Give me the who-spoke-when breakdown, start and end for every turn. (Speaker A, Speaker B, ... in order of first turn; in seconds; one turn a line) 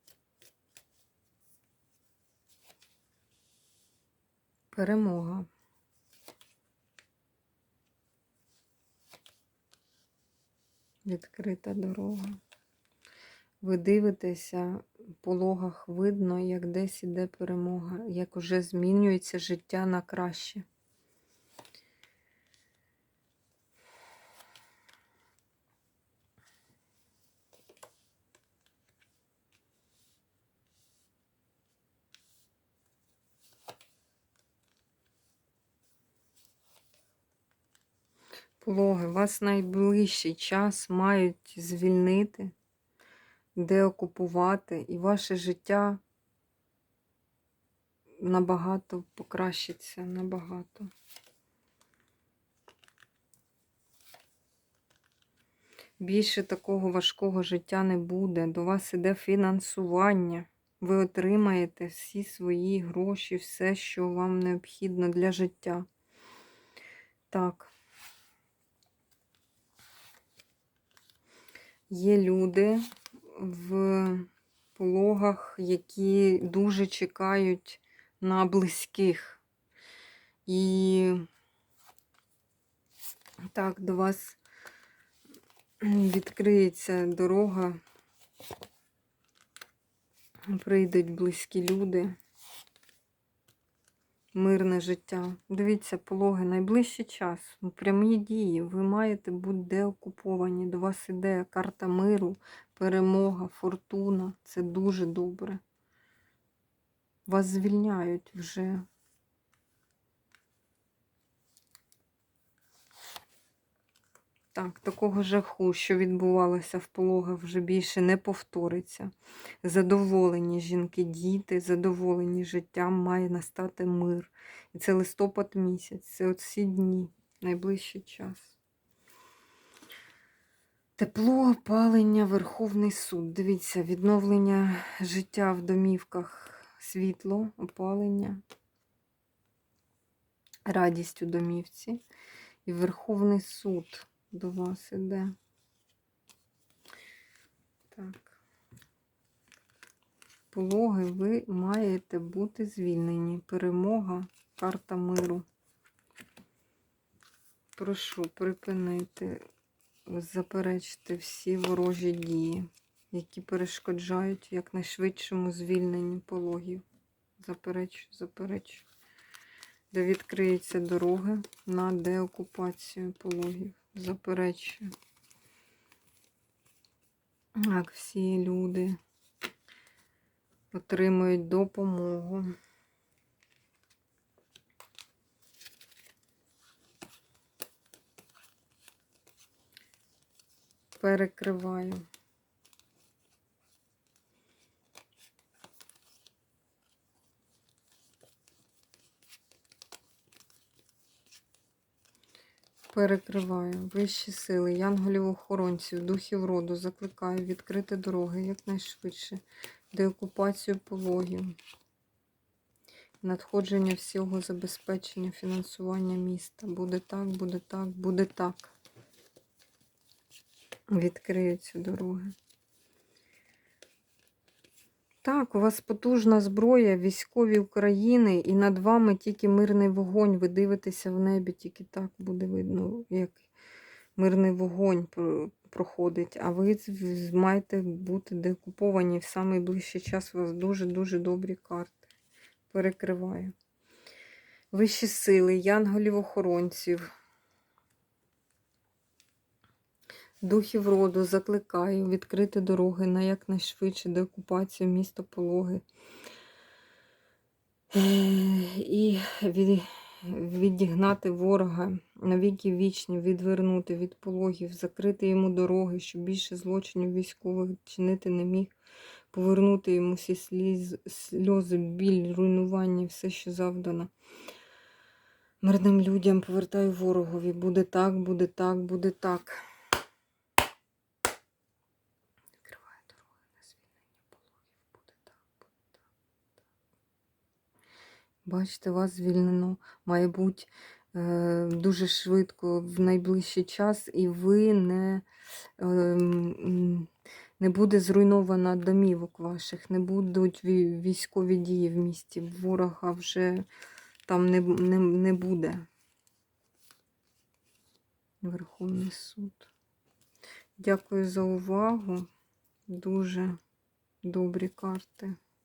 Speaker A: 4.7-5.5
Speaker A: 11.0-12.4
Speaker A: 13.6-20.6
Speaker A: 38.6-42.5
Speaker A: 43.5-46.0
Speaker A: 48.2-50.9
Speaker A: 56.0-65.9
Speaker A: 67.3-67.7
Speaker A: 71.9-79.4
Speaker A: 80.5-81.2
Speaker A: 83.5-84.4
Speaker A: 85.8-87.8
Speaker A: 90.5-92.2
Speaker A: 94.3-105.6
Speaker A: 107.3-108.8
Speaker A: 114.5-119.1
Speaker A: 119.6-128.5
Speaker A: 131.0-138.4
Speaker A: 140.6-142.0
Speaker A: 142.7-145.3
Speaker A: 147.9-148.4
Speaker A: 150.5-155.4
Speaker A: 157.8-159.5
Speaker A: 160.1-166.8
Speaker A: 167.4-168.8
Speaker A: 169.9-174.9
Speaker A: 177.6-179.0
Speaker A: 180.7-182.5
Speaker A: 191.0-192.0
Speaker A: 202.9-211.6
Speaker A: 213.2-218.7
Speaker A: 220.9-222.3
Speaker A: 225.2-233.4
Speaker A: 234.2-242.1
Speaker A: 242.7-243.5
Speaker A: 244.7-247.1
Speaker A: 250.4-255.8
Speaker A: 257.9-268.7
Speaker A: 269.3-274.1
Speaker A: 275.6-279.6
Speaker A: 282.6-285.7
Speaker A: 288.4-295.2
Speaker A: 295.8-303.6
Speaker A: 304.2-305.9
Speaker A: 308.4-309.7
Speaker A: 310.8-312.3
Speaker A: 312.9-313.6
Speaker A: 314.2-315.3